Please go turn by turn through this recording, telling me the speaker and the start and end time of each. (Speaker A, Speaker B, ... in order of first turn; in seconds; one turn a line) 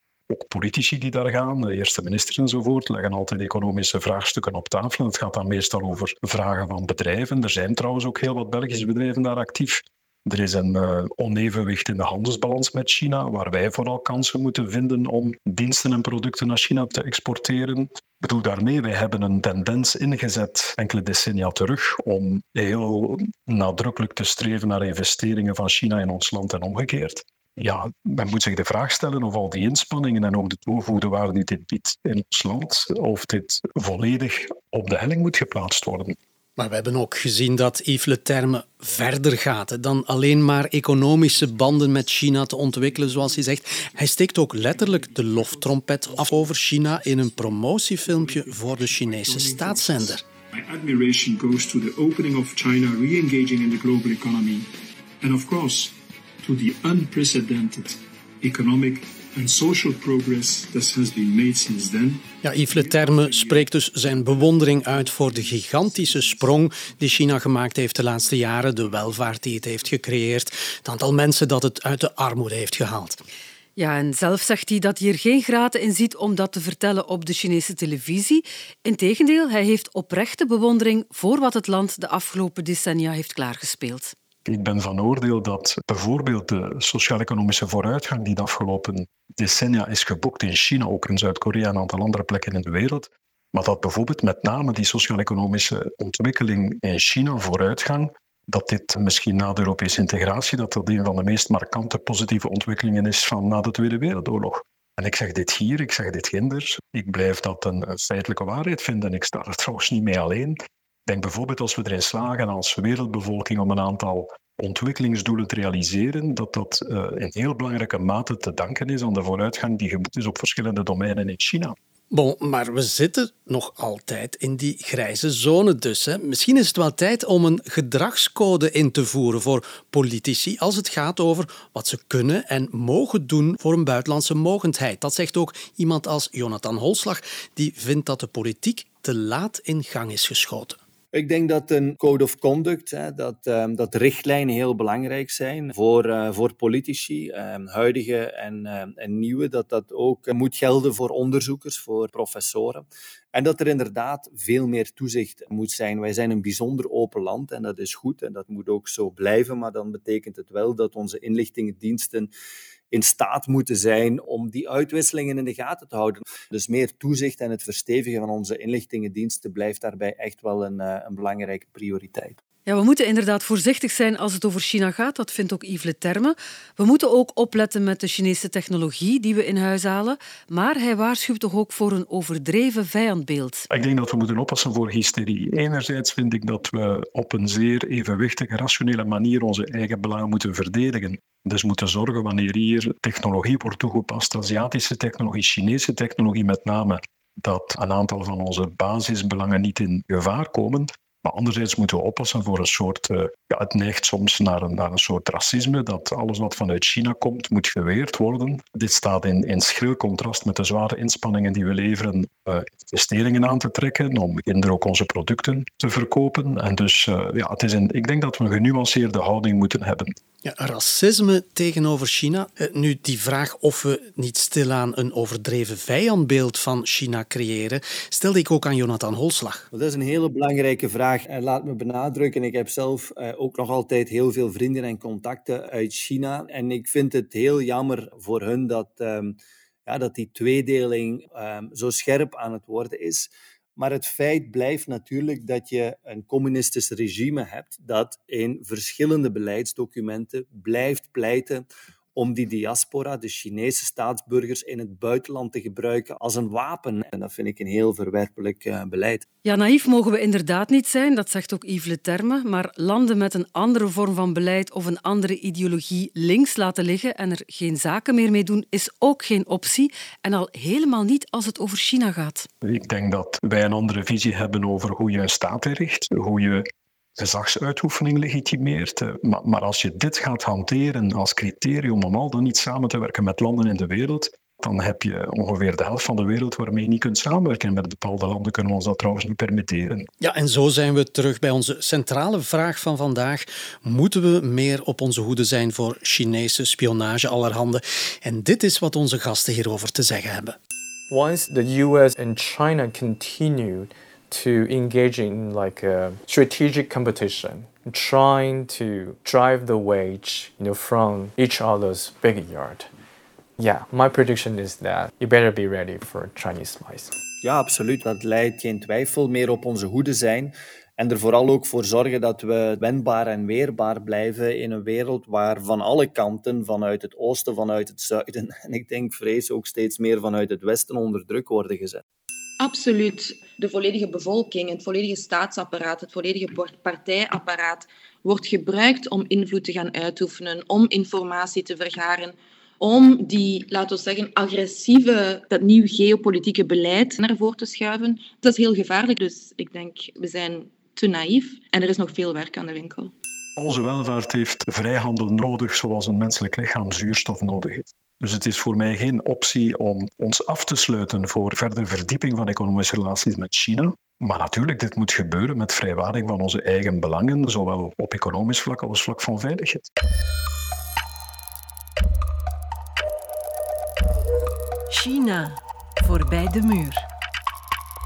Speaker A: 0.3-36.1
Speaker B: 36.6-50.2
Speaker C: 44.7-46.5
Speaker C: 47.1-54.7
Speaker C: 55.2-65.6
Speaker B: 62.4-73.2
Speaker D: 73.8-84.1
Speaker A: 84.4-121.7
Speaker B: 122.1-140.8
Speaker E: 141.1-162.3
Speaker E: 162.9-172.4
Speaker D: 172.7-183.7
Speaker A: 183.7-220.2
Speaker B: 220.4-229.7
Speaker E: 229.7-259.2
Speaker D: 259.4-272.5
Speaker A: 272.6-290.1
Speaker B: 290.2-300.6
Speaker F: 301.1-312.9
Speaker F: 313.6-317.1
Speaker E: 317.4-332.0
Speaker G: 332.6-353.1
Speaker A: 353.6-369.9